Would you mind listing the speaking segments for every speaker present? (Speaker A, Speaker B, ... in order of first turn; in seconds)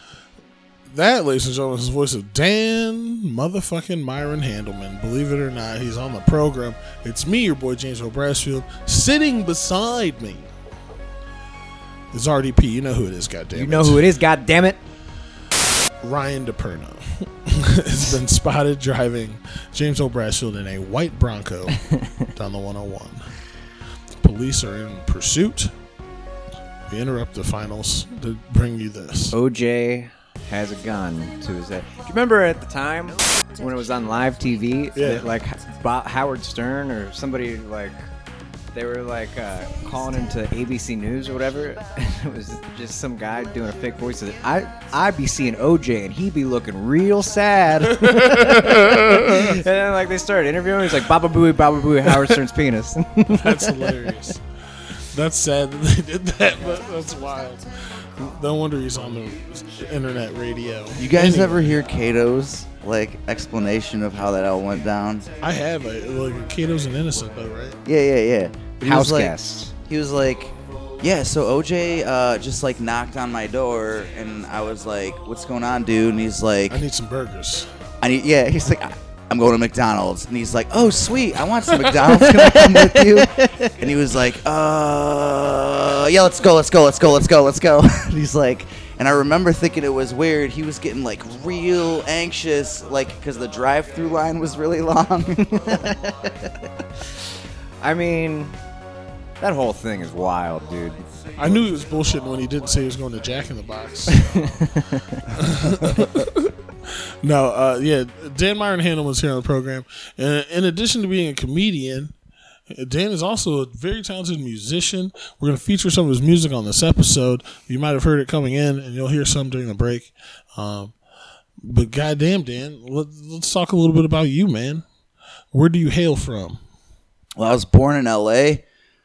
Speaker A: 0.9-10.5, 12.1-14.0, 16.0-21.8, 22.3-23.2, 24.2-25.7, 26.9-29.4, 34.9-35.3, 47.9-49.6, 53.3-54.4, 55.0-61.8, 65.4-67.8, 76.7-77.7, 101.4-104.5, 105.3-112.1, 112.7-120.9, 121.6-124.8, 125.5-126.6
Speaker B: 13.5-14.8, 29.3-38.0, 38.7-54.1, 68.8-69.7, 81.7-83.7, 95.4-96.5, 97.8-98.5, 99.4-101.0, 104.1-105.2
Speaker C: 61.0-65.3, 67.8-76.8, 78.0-95.7, 127.3-128.6